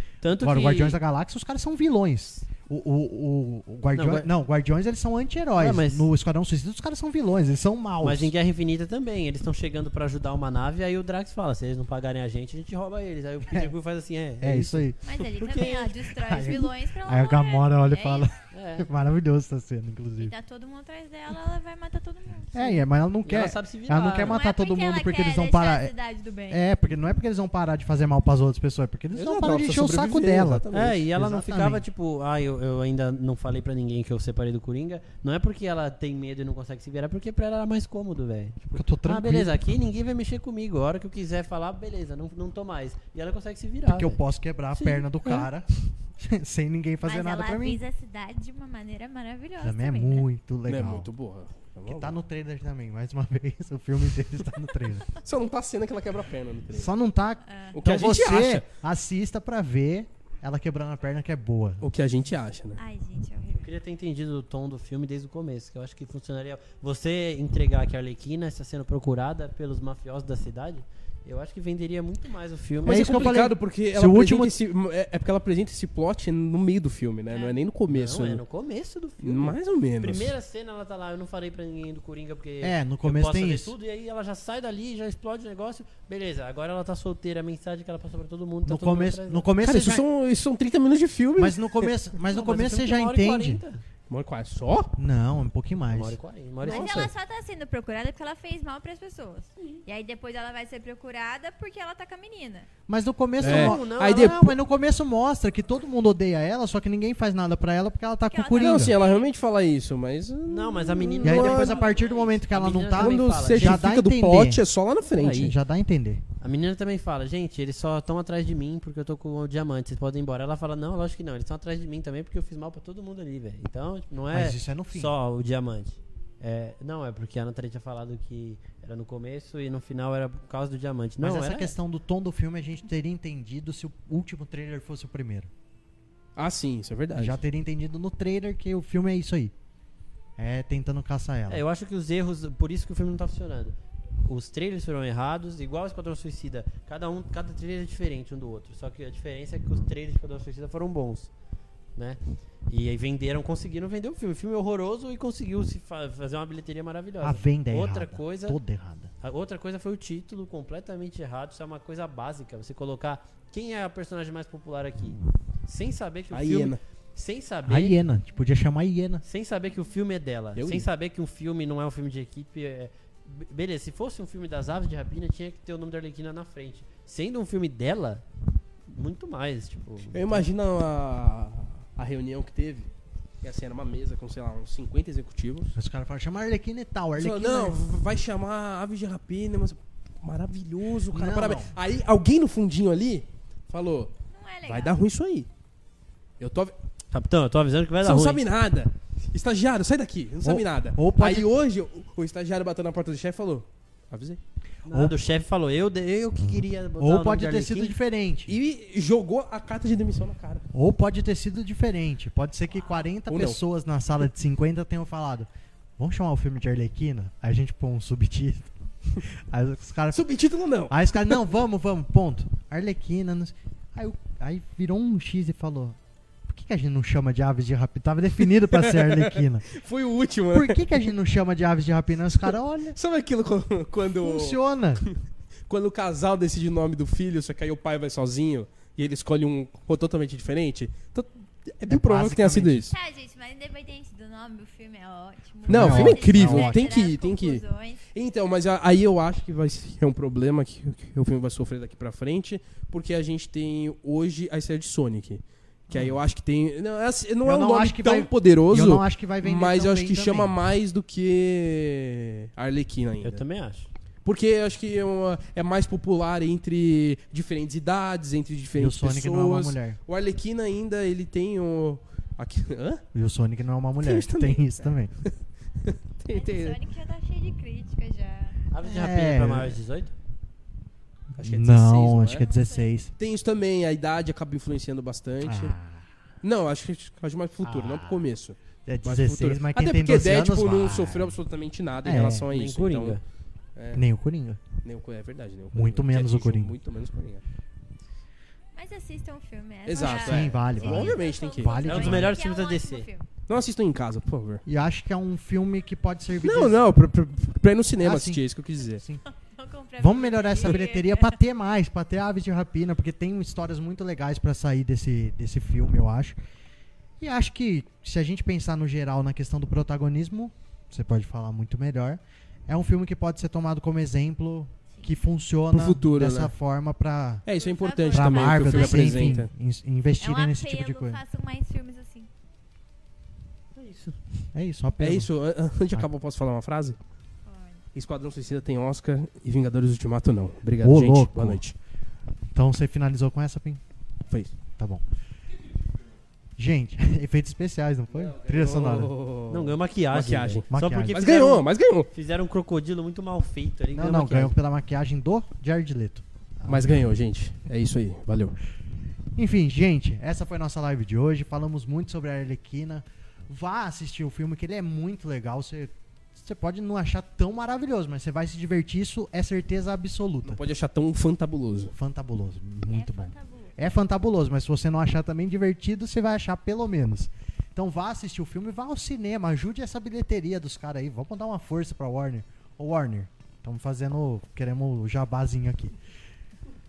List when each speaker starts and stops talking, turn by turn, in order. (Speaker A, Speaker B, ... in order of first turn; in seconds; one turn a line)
Speaker A: 0.2-1.0
Speaker B: 0.4-8.3
Speaker A: 3.9-4.3
Speaker A: 5.6-6.1
Speaker A: 8.0-16.0
Speaker B: 13.5-13.7
Speaker B: 14.4-15.0
Speaker C: 15.0-18.3
Speaker B: 15.5-20.4
Speaker A: 18.5-18.9
Speaker C: 20.2-22.8
Speaker B: 22.5-25.9
Speaker A: 23.2-24.4
Speaker C: 24.2-26.7
Speaker B: 26.5-31.8
Speaker D: 29.1-31.0
Speaker A: 30.7-44.2
Speaker B: 38.8-39.6
Speaker B: 43.9-47.8
Speaker A: 44.7-45.5
Speaker C: 47.0-50.3
Speaker B: 49.6-51.1
Speaker D: 50.7-52.2
Speaker B: 51.9-55.1
Speaker D: 55.2-56.9
Speaker B: 56.7-61.9
Speaker C: 57.5-57.8
Speaker D: 57.7-58.6
Speaker D: 61.8-62.8
Speaker C: 62.8-63.7
Speaker A: 63.5-73.4
Speaker D: 72.8-78.4
Speaker B: 72.8-74.6
Speaker C: 77.3-77.6
Speaker A: 77.9-89.5
Speaker D: 79.2-80.3
Speaker B: 82.6-83.7
Speaker B: 88.7-90.0
Speaker D: 89.6-91.9
Speaker B: 91.4-93.6
Speaker A: 92.3-93.8
Speaker D: 94.1-94.9
Speaker B: 95.0-96.2
Speaker A: 95.9-97.1
Speaker C: 96.6-102.7
Speaker D: 96.7-97.1
Speaker B: 102.9-109.0
Speaker D: 103.4-104.5
Speaker A: 103.4-104.5
Speaker C: 108.3-109.3
Speaker D: 108.6-111.8
Speaker A: 110.5-113.8
Speaker B: 111.2-114.6
Speaker C: 111.8-112.3
Speaker D: 113.0-115.5
Speaker A: 115.2-115.5
Speaker B: 115.2-116.2
Speaker A: 116.4-131.7
Speaker B: 124.3-125.1
Speaker B: 131.2-135.5
Speaker D: 136.4-137.4
Speaker B: 137.2-139.5
Speaker B: 140.4-141.6
Speaker A: 141.5-151.3
Speaker A: 152.0-158.6
Speaker B: 157.2-159.1
Speaker A: 159.2-168.0
Speaker D: 166.3-166.8
Speaker B: 167.7-169.2
Speaker A: 169.2-178.2
Speaker D: 170.6-170.9
Speaker A: 178.9-180.5
Speaker D: 180.1-182.9
Speaker D: 183.4-185.8
Speaker B: 185.8-187.8
Speaker D: 187.2-194.1
Speaker B: 191.1-191.7
Speaker C: 194.3-195.0
Speaker D: 194.7-195.5
Speaker D: 196.4-196.8
Speaker A: 197.1-198.4
Speaker D: 198.0-204.4
Speaker B: 200.4-201.5
Speaker A: 204.9-208.0
Speaker B: 204.9-205.2
Speaker B: 207.0-208.6
Speaker D: 208.5-210.7
Speaker B: 210.7-220.2
Speaker D: 213.3-213.6
Speaker D: 220.1-221.4
Speaker B: 220.9-229.7
Speaker D: 228.7-231.0
Speaker B: 230.5-233.0
Speaker D: 233.0-235.2
Speaker B: 234.2-235.0
Speaker D: 235.7-242.9
Speaker B: 241.9-242.9
Speaker C: 242.9-248.0
Speaker B: 245.7-247.0
Speaker D: 245.7-263.4
Speaker B: 255.9-256.2
Speaker B: 257.4-260.6
Speaker A: 263.2-263.9
Speaker D: 264.2-273.0
Speaker B: 268.8-270.0
Speaker B: 273.1-275.1
Speaker D: 274.0-275.3
Speaker D: 275.8-276.8
Speaker C: 276.3-278.6
Speaker A: 278.7-280.1
Speaker B: 278.8-279.8
Speaker D: 281.4-282.4
Speaker B: 281.4-283.1
Speaker C: 282.2-282.9
Speaker D: 283.2-285.8
Speaker B: 285.4-286.1
Speaker D: 286.4-293.2
Speaker B: 287.6-288.2
Speaker B: 288.9-291.4
Speaker B: 292.0-292.5
Speaker A: 292.5-293.2
Speaker D: 293.8-294.0
Speaker B: 293.9-294.6
Speaker D: 294.8-297.4
Speaker B: 295.7-296.7
Speaker C: 298.8-303.3
Speaker D: 299.9-302.3
Speaker B: 299.9-302.4
Speaker A: 301.9-303.1
Speaker D: 303.5-304.6
Speaker B: 304.7-306.8
Speaker D: 306.4-309.0
Speaker B: 308.0-308.4
Speaker B: 308.9-309.2
Speaker C: 309.3-311.4
Speaker B: 310.0-316.4
Speaker B: 317.2-327.4
Speaker D: 325.7-326.5
Speaker D: 327.4-329.5
Speaker C: 327.5-329.4
Speaker B: 328.1-331.2
Speaker C: 330.2-332.3
Speaker A: 333.8-334.2
Speaker B: 334.5-335.3
Speaker D: 335.0-337.0
Speaker C: 337.4-337.8
Speaker D: 337.9-341.8
Speaker B: 340.8-341.6
Speaker B: 342.6-343.8
Speaker B: 344.8-345.0
Speaker B: 346.6-349.1
Speaker D: 348.1-352.1
Speaker A: 349.5-354.6
Speaker B: 350.7-351.2
Speaker B: 353.9-357.1
Speaker D: 356.7-358.6
Speaker B: 359.4-370.6
Speaker D: 370.4-371.9
Speaker B: 371.9-386.0
Speaker C: 372.9-373.8